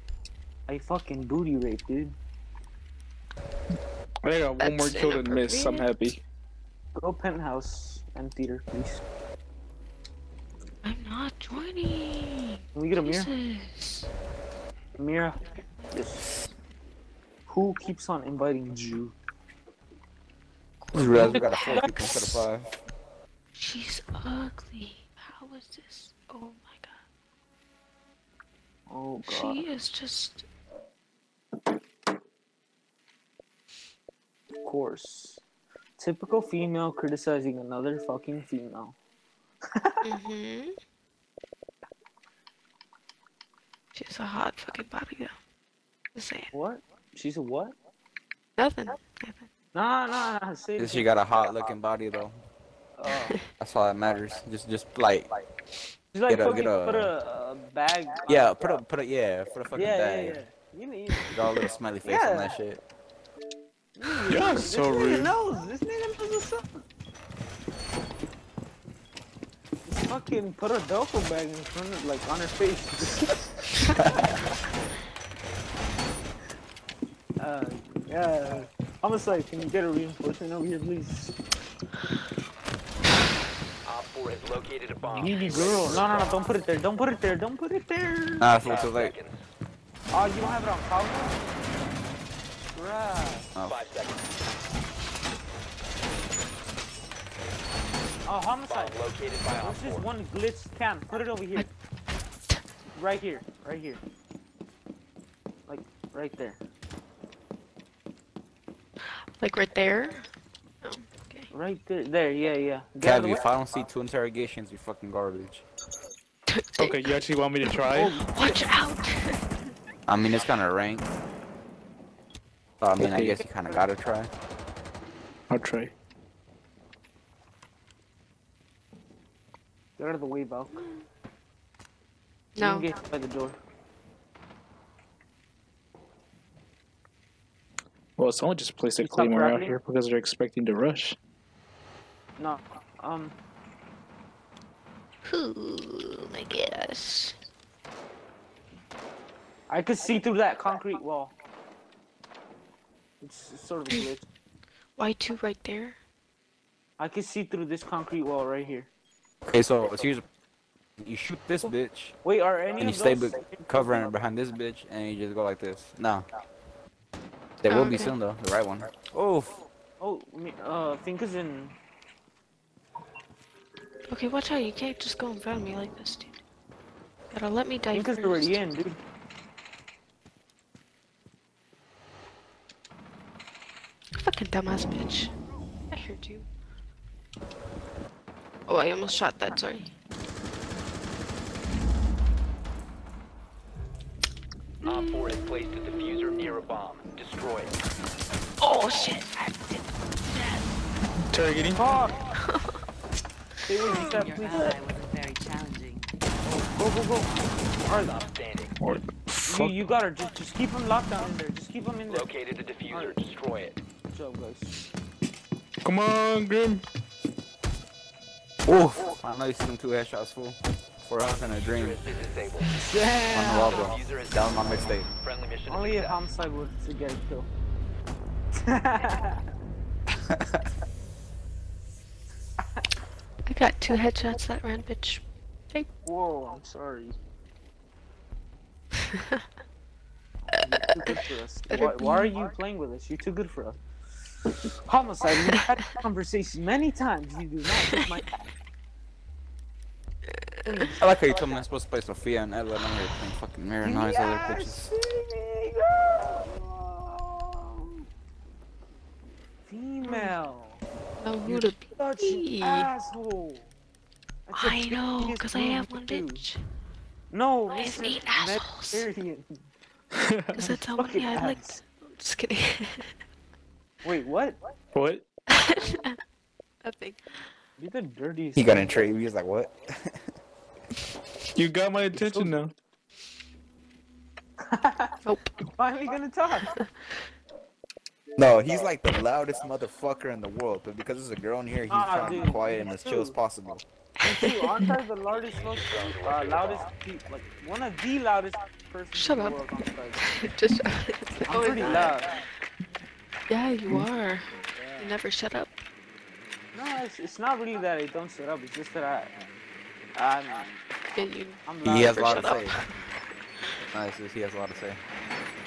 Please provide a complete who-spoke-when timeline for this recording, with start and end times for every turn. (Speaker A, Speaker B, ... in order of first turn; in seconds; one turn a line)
Speaker A: 0.7-2.1
Speaker B: 4.2-6.2
Speaker C: 4.6-5.9
Speaker A: 7.0-9.0
Speaker C: 10.8-14.1
Speaker A: 12.7-13.3
Speaker A: 15.0-16.3
Speaker A: 17.5-19.1
Speaker C: 20.8-22.4
Speaker D: 20.9-22.7
Speaker A: 21.3-22.1
Speaker C: 23.5-27.0
Speaker A: 28.9-29.6
Speaker C: 29.3-30.4
Speaker A: 34.6-35.4
Speaker A: 36.0-39.0
Speaker A: 39.7-40.0
Speaker C: 40.0-40.8
Speaker C: 43.9-45.3
Speaker C: 46.1-46.5
Speaker A: 46.5-47.7
Speaker C: 48.6-49.5
Speaker A: 49.7-51.1
Speaker D: 50.8-52.4
Speaker A: 53.0-53.4
Speaker D: 53.6-55.3
Speaker A: 56.1-58.5
Speaker D: 56.3-57.1
Speaker D: 58.2-60.4
Speaker A: 59.7-61.4
Speaker D: 61.3-62.8
Speaker A: 62.0-62.5
Speaker A: 64.0-66.8
Speaker B: 64.3-65.3
Speaker A: 69.9-73.4
Speaker D: 73.9-74.3
Speaker A: 77.4-81.3
Speaker E: 83.8-86.5
Speaker A: 85.1-88.5
Speaker D: 88.4-89.1
Speaker E: 88.6-89.4
Speaker A: 90.1-91.5
Speaker A: 92.7-93.5
Speaker E: 93.6-94.3
Speaker A: 98.2-99.0
Speaker E: 98.7-100.0
Speaker A: 99.6-101.7
Speaker A: 102.9-104.0
Speaker A: 105.7-106.6
Speaker C: 109.1-110.3
Speaker C: 110.8-111.5
Speaker A: 111.5-113.4
Speaker D: 113.0-115.7
Speaker C: 116.5-117.1
Speaker B: 116.8-118.2
Speaker C: 117.6-119.4
Speaker A: 117.9-118.7
Speaker D: 120.1-121.1
Speaker D: 122.8-124.3
Speaker B: 123.0-123.4
Speaker B: 125.5-125.9
Speaker A: 130.0-130.9
Speaker C: 132.6-132.9
Speaker A: 132.6-133.6
Speaker B: 138.2-141.2
Speaker A: 139.0-139.8
Speaker A: 142.4-143.3
Speaker C: 145.2-147.3
Speaker A: 149.7-151.3
Speaker A: 153.2-154.3
Speaker C: 155.0-156.0
Speaker A: 157.0-158.9
Speaker D: 159.4-160.2
Speaker D: 161.0-162.2
Speaker A: 162.2-164.1
Speaker D: 162.8-166.3
Speaker D: 167.6-169.6
Speaker C: 167.7-168.2
Speaker A: 170.0-171.8
Speaker C: 174.1-176.4
Speaker C: 177.3-178.7
Speaker A: 177.9-179.0
Speaker C: 184.2-185.3
Speaker C: 185.9-186.4
Speaker C: 188.7-189.9
Speaker E: 194.8-197.8
Speaker C: 194.8-195.4
Speaker C: 198.6-200.6
Speaker B: 201.3-201.9
Speaker A: 201.7-202.2
Speaker C: 201.9-202.8
Speaker A: 203.7-204.8
Speaker F: 203.9-206.1
Speaker A: 206.4-207.3
Speaker A: 207.8-208.2
Speaker E: 207.9-208.8
Speaker B: 208.8-209.9
Speaker A: 209.5-212.3
Speaker E: 212.1-213.8
Speaker A: 212.9-213.2
Speaker A: 214.1-214.8
Speaker B: 215.8-216.8
Speaker D: 218.7-222.0
Speaker E: 221.5-222.8
Speaker A: 222.7-223.9
Speaker D: 223.3-225.1
Speaker E: 223.6-226.2
Speaker A: 225.7-227.5
Speaker A: 228.6-229.5
Speaker D: 230.1-230.6
Speaker C: 233.4-235.9
Speaker A: 236.0-237.2
Speaker C: 239.1-239.4
Speaker A: 240.5-243.8
Speaker C: 241.0-242.3
Speaker A: 244.8-248.3
Speaker A: 250.7-251.1
Speaker D: 251.0-254.9
Speaker A: 253.8-258.0
Speaker A: 259.6-260.8
Speaker C: 260.0-260.3
Speaker C: 261.2-262.9
Speaker A: 261.4-263.7
Speaker A: 264.5-266.4
Speaker C: 264.5-266.6
Speaker A: 267.3-269.6
Speaker C: 267.7-269.1
Speaker B: 270.1-270.8
Speaker C: 270.5-273.1
Speaker A: 271.0-271.8
Speaker A: 274.0-274.6
Speaker B: 274.9-275.2
Speaker C: 275.5-276.2
Speaker C: 276.8-277.4
Speaker A: 277.8-278.9
Speaker D: 278.6-280.3
Speaker B: 281.5-282.7
Speaker A: 282.2-282.6
Speaker A: 284.6-286.7
Speaker C: 286.6-287.1
Speaker D: 288.4-293.8
Speaker A: 291.9-293.4
Speaker A: 294.2-300.2
Speaker E: 295.3-296.9
Speaker C: 299.1-299.6
Speaker C: 300.2-302.3
Speaker A: 301.4-302.3
Speaker C: 303.5-305.7
Speaker A: 304.7-305.2
Speaker A: 306.7-309.4
Speaker A: 310.1-310.8
Speaker C: 311.1-312.9
Speaker A: 311.6-312.7
Speaker D: 311.8-312.8
Speaker D: 313.9-315.0